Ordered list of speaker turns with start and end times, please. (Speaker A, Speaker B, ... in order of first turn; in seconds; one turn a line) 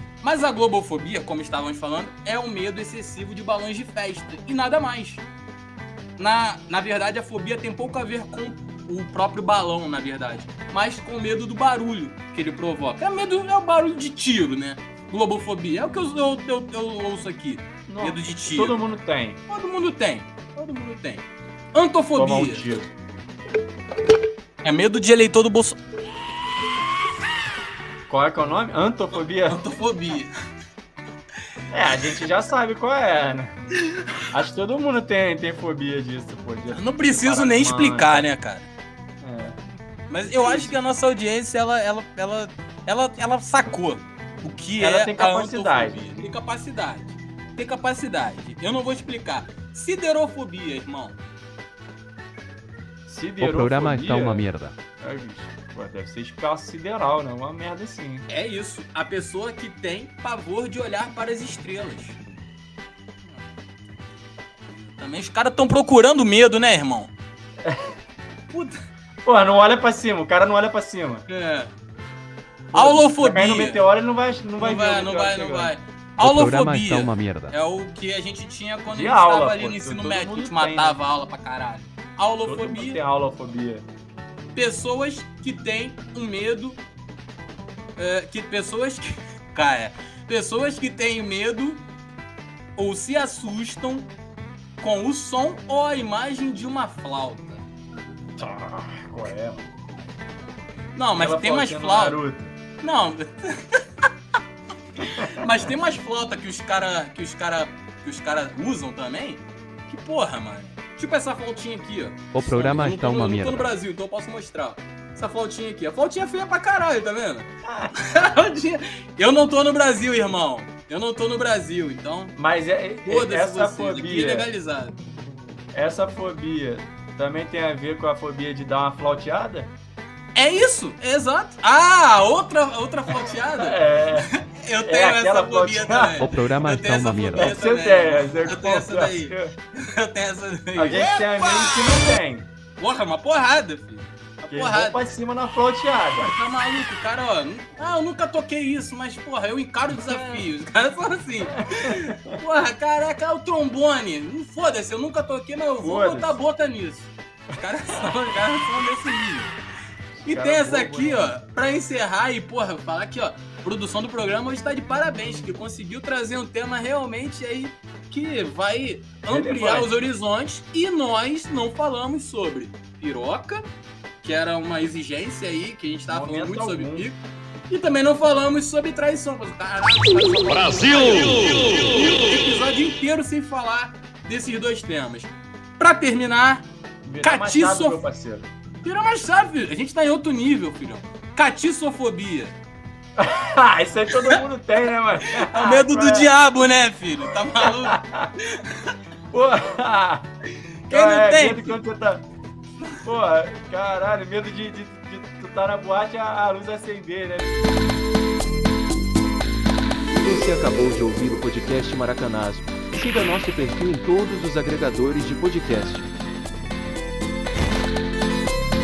Speaker A: 0.2-5.2
Speaker A: 6.2-18.8
Speaker B: 17.9-19.4
Speaker A: 19.5-22.7
Speaker B: 22.1-22.9
Speaker A: 24.6-25.8
Speaker B: 28.1-29.6
Speaker A: 29.4-30.3
Speaker B: 31.7-33.5
Speaker B: 34.3-38.3
Speaker A: 36.7-38.7
Speaker B: 39.2-39.6
Speaker A: 40.1-51.2
Speaker B: 40.2-40.7
Speaker B: 44.8-46.3
Speaker B: 53.0-54.5
Speaker C: 53.4-54.8
Speaker B: 55.0-58.2
Speaker A: 58.3-62.2
Speaker A: 63.2-67.1
Speaker B: 67.6-67.9
Speaker A: 68.5-68.8
Speaker B: 69.2-71.2
Speaker A: 71.3-71.8
Speaker B: 72.7-75.7
Speaker A: 72.7-73.8
Speaker A: 74.6-83.0
Speaker C: 76.2-77.5
Speaker B: 78.9-81.0
Speaker B: 82.4-83.8
Speaker A: 84.5-86.8
Speaker A: 88.0-91.8
Speaker A: 92.8-94.1
Speaker A: 94.8-97.6
Speaker B: 98.4-99.6
Speaker A: 100.9-102.2
Speaker B: 101.2-102.5
Speaker A: 102.8-103.8
Speaker A: 105.0-122.3
Speaker B: 105.2-105.5
Speaker C: 112.3-113.7
Speaker B: 117.6-117.9
Speaker B: 122.3-124.5
Speaker A: 123.0-125.0
Speaker B: 125.7-129.7
Speaker A: 130.3-141.6
Speaker B: 133.1-134.3
Speaker B: 134.8-136.3
Speaker C: 136.2-137.6
Speaker B: 137.3-139.5
Speaker B: 140.7-142.5
Speaker A: 142.8-145.0
Speaker B: 144.5-146.3
Speaker A: 146.2-159.5
Speaker B: 149.9-150.4
Speaker B: 151.5-152.4
Speaker B: 155.8-156.4
Speaker B: 160.2-161.4
Speaker A: 160.2-173.6
Speaker B: 169.3-169.9
Speaker A: 174.2-186.7
Speaker B: 176.1-177.1
Speaker B: 187.0-188.5
Speaker A: 187.2-188.0
Speaker A: 188.8-192.6
Speaker B: 193.2-196.3
Speaker A: 195.2-198.6
Speaker B: 197.6-198.3
Speaker B: 199.3-200.3
Speaker A: 200.9-201.8
Speaker B: 200.9-202.2
Speaker B: 203.0-207.5
Speaker D: 210.2-216.1